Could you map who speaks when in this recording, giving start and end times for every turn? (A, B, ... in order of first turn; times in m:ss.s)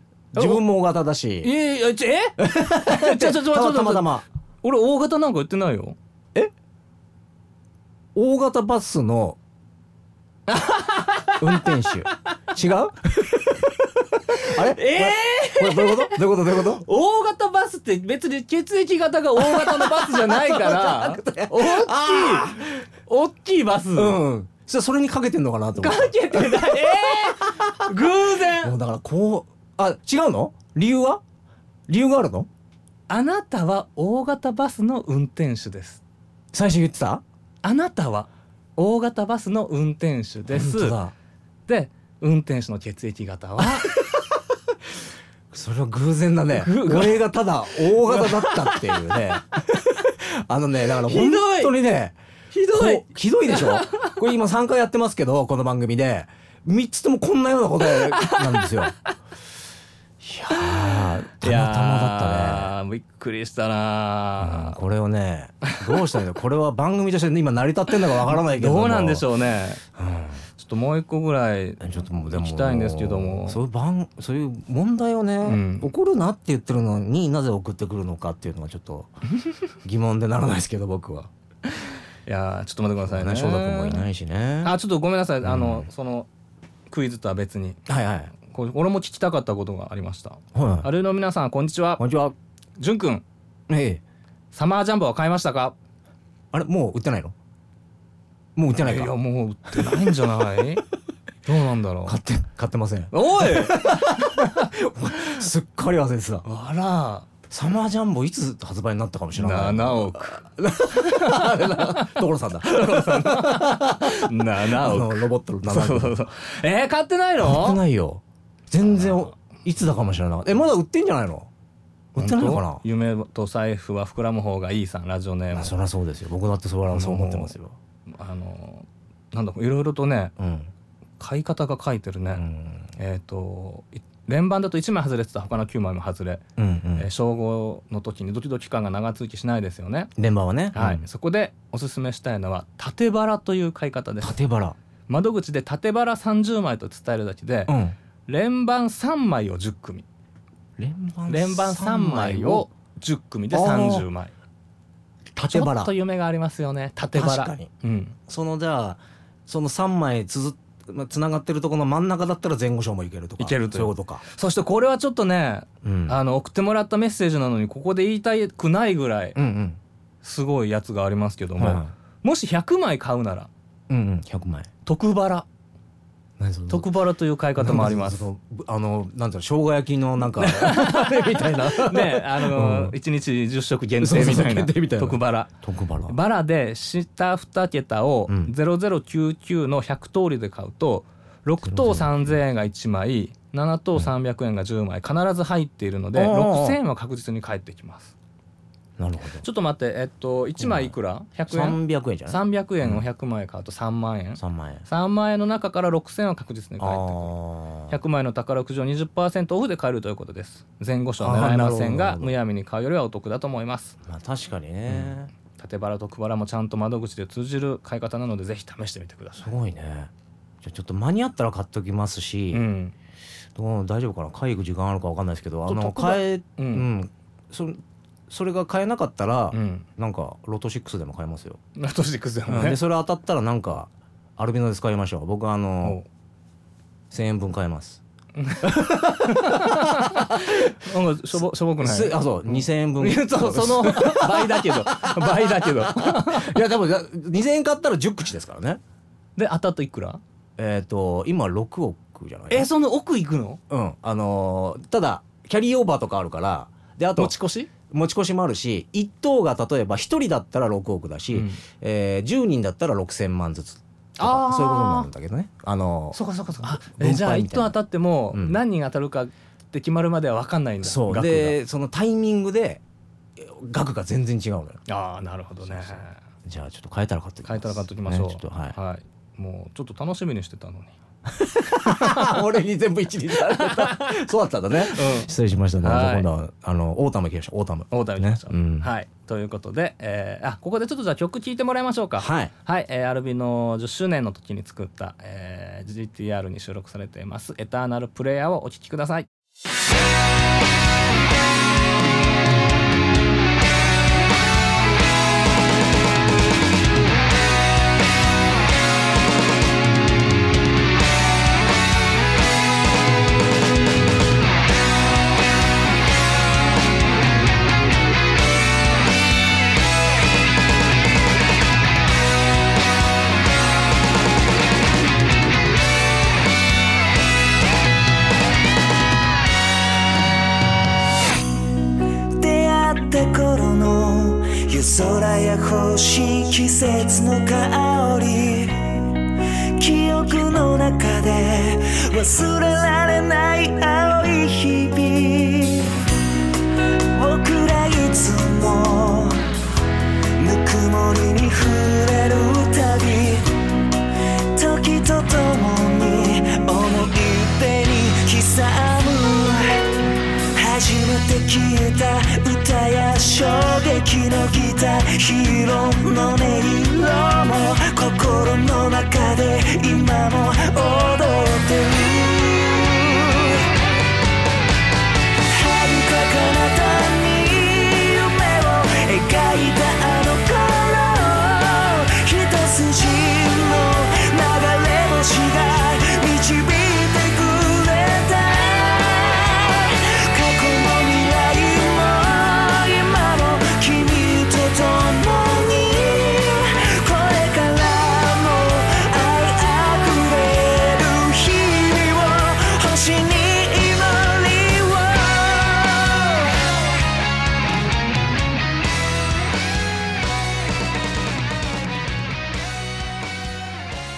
0:00.3-0:01.5 A
0:00.4-0:00.6 B
0:01.4-0:06.0 B
0:02.4-0:04.2 A
0:08.2-0:09.4 A
0:10.5-0:11.7 B
0:11.4-0:13.7 A
0:14.3-0:16.2 B
0:14.3-0:16.8 A
0:16.8-0:24.2 B
0:19.4-0:22.8 A
0:24.0-0:31.2 A
0:25.8-0:28.8 B
0:31.9-0:32.5 A
0:33.1-0:36.0 B
0:36.5-0:37.2 A
0:37.6-0:41.0 B
0:40.5-0:41.1 A
0:41.7-0:44.0 B
0:43.6-0:44.4 A
0:45.5-0:52.2 A
0:46.5-0:49.2 B
0:51.0-0:51.7 B
0:52.5-0:54.1 B
0:52.7-0:58.9 A
0:57.9-0:58.9 B
1:00.2-1:02.7 A
1:00.5-1:04.8 B
1:04.4-1:09.3 A
1:05.7-1:06.0 B
1:08.2-1:09.8 B
1:10.0-1:10.4 A
1:10.6-1:13.6 B
1:11.8-1:19.2 A
1:15.4-1:15.9 B
1:19.8-1:21.3 A
1:21.8-1:24.0 B
1:23.1-1:24.7 A
1:24.6-1:26.3 B
1:25.4-1:25.9 A
1:26.9-1:27.8 B
1:27.9-1:28.3 A
1:28.3-1:32.0 B
1:30.6-1:30.9 A
1:32.0-1:32.3 A
1:32.8-1:33.2 B
1:33.7-1:34.0 A
1:34.5-1:35.8 B
1:36.5-1:37.4 A
1:38.6-1:39.1 A
1:38.8-1:40.8 B
1:39.8-1:40.0 A
1:41.5-1:42.2 B
1:42.0-1:46.5 A
1:43.1-1:44.7 B
1:46.4-1:47.3 B
1:47.5-1:56.2 A
1:49.4-1:57.8 B
1:57.4-2:01.5 A
1:58.9-1:59.3 B
2:02.2-2:02.8 A
2:02.2-2:05.7 B
2:05.5-2:07.8 A
2:06.9-2:07.5 B
2:08.1-2:10.4 B
2:10.4-2:10.7 A
2:11.2-2:12.4 B
2:12.4-2:12.9 A
2:13.0-2:16.4 B
2:16.6-2:17.1 A
2:17.0-2:20.1 B
2:20.2-2:21.0 A
2:20.7-2:24.4 B
2:24.2-2:24.8 A
2:25.1-2:27.8 B
2:27.7-2:28.0 A
2:28.3-2:30.1 B
2:30.8-2:32.7 A
2:31.3-2:34.3 B
2:33.5-2:34.1 A
2:35.4-2:35.9 A
2:35.5-2:38.2 B
2:37.1-2:37.7 A
2:38.3-2:44.2 A
2:43.4-2:49.4 B
2:45.8-2:46.2 A
2:49.4-2:49.8 A
2:50.2-2:53.5 B
2:51.6-2:51.9 A
2:53.9-2:54.7 A
2:54.9-2:55.4 B
2:56.4-2:56.9 A
2:56.7-2:58.3 B
2:57.6-3:03.0 A
3:00.3-3:05.5 B
3:04.0-3:06.2 A
3:06.1-3:18.1 B
3:08.3-3:08.5 A
3:11.6-3:12.4 A
3:16.1-3:16.8 A
3:19.0-3:19.4 A
3:19.4-3:27.3 B
3:20.6-3:20.9 A
3:21.5-3:23.0 A
3:24.4-3:24.9 A
3:26.8-3:28.0 A
3:27.9-3:34.0 B
3:31.2-3:32.3 A
3:34.0-3:35.3 A
3:34.9-3:39.5 B
3:39.4-3:42.7 A
3:42.5-3:43.0 B
3:43.6-3:51.6 A
3:45.7-3:46.9 B
3:49.5-3:49.9 B
3:51.8-3:52.8 B
3:52.5-3:56.0 A
3:57.1-3:58.0 A
3:58.4-4:06.6 B
3:58.6-4:00.5 A
4:01.8-4:08.8 A
4:09.4-4:10.2 B
4:10.6-4:12.7 A
4:12.5-4:13.6 B
4:13.7-4:17.4 A
4:17.2-4:17.7 B
4:17.9-4:27.8 A
4:21.3-4:21.6 B
4:24.2-4:25.1 B
4:26.1-4:31.6 B
4:28.3-4:28.6 A
4:30.8-4:32.8 A
4:33.4-4:34.8 A
4:34.9-4:36.2 B
4:35.7-4:38.8 A
4:37.5-4:41.0 B
4:41.3-4:48.9 A
4:41.9-4:42.4 B
4:43.6-4:44.1 B
4:44.8-4:46.3 B
4:47.9-4:59.3 B
4:52.2-4:52.5 A
5:32.3-5:39.2 C
5:39.8-5:46.0 C
5:47.1-5:49.5 C
5:50.4-5:53.6 C
5:54.6-5:59.9 C
6:00.6-6:13.7 C
6:15.5-6:46.6 C